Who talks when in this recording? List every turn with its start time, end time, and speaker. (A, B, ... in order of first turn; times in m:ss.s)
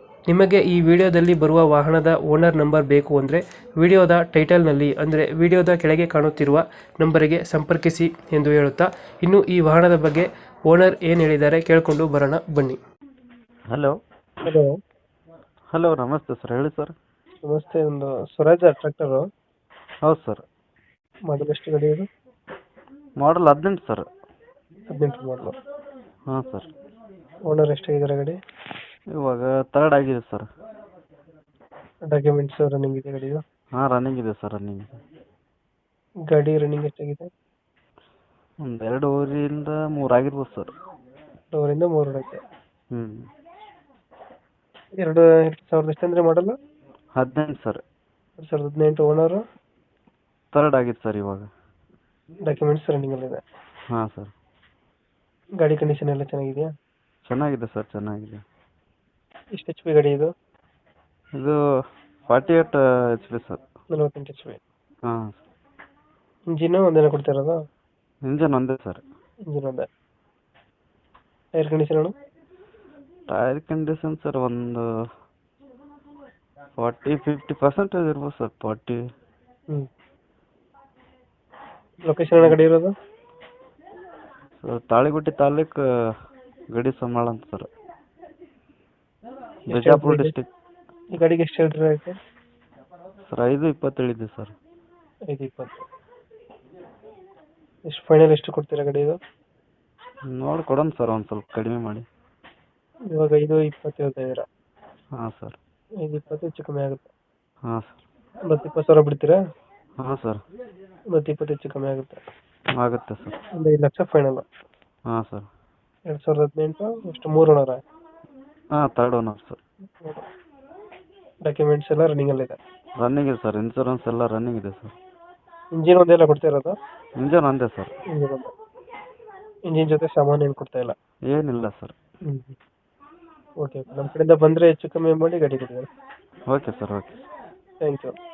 0:00.3-0:12.8 A
0:13.7-0:14.0 B
0:14.4-0:14.7 A
0:15.7-0:16.9 B
0:17.4-0:19.3 A
0:20.1-0:20.4 B
0:21.3-0:22.1 A
0:23.2-0:24.1 B
0:24.9-0:25.6 A
0:26.3-0:26.7 B
0:27.5-0:28.4 A
0:29.2-0:30.5 B
0:32.1-0:33.4 A
0:33.7-0:35.0 B
0:36.3-0:37.3 A
0:38.6-0:40.7 B
0:41.5-0:42.4 A
0:42.9-0:43.3 B
0:45.0-0:46.6 A
0:47.2-0:47.8 B
0:48.4-0:49.4 A
0:50.5-0:51.5 B
0:52.5-0:53.4 A
0:53.9-0:54.3 B
0:55.6-0:56.7 A
0:57.3-0:58.4 B
0:59.6-1:00.3 A
1:02.3-1:03.6 B
1:03.9-1:04.6 A
1:05.1-1:05.4 B
1:06.5-1:07.6 A
1:08.3-1:09.0 B
1:09.5-1:09.9 A
1:11.6-1:12.1 A
1:13.3-1:14.8 B
1:16.8-1:19.0 B
1:22.1-1:22.9 A
1:24.6-1:26.2 B
1:26.7-1:27.7 B
1:29.7-1:30.5 B
1:29.7-1:30.3 A
1:31.2-1:32.2 A
1:33.3-1:34.5 B
1:35.3-1:35.8 A
1:37.9-1:39.2 A
1:40.3-1:42.1 B
1:43.1-1:44.5 A
1:45.2-1:45.6 B
1:46.0-1:47.1 A
1:47.7-1:48.0 B
1:48.5-1:49.4 A
1:50.0-1:50.4 B
1:51.1-1:52.2 A
1:52.8-1:53.4 B
1:53.6-1:54.4 A
1:55.1-1:55.5 B
1:56.1-1:57.8 A
1:58.7-1:59.6 B
2:01.4-2:02.6 A
2:03.0-2:05.0 B
2:05.8-2:06.8 A
2:07.2-2:07.9 B
2:08.1-2:08.5 A
2:09.7-2:10.9 A
2:11.3-2:11.9 B
2:12.3-2:12.6 A
2:13.6-2:15.9 A
2:16.5-2:17.2 B
2:17.8-2:18.1 A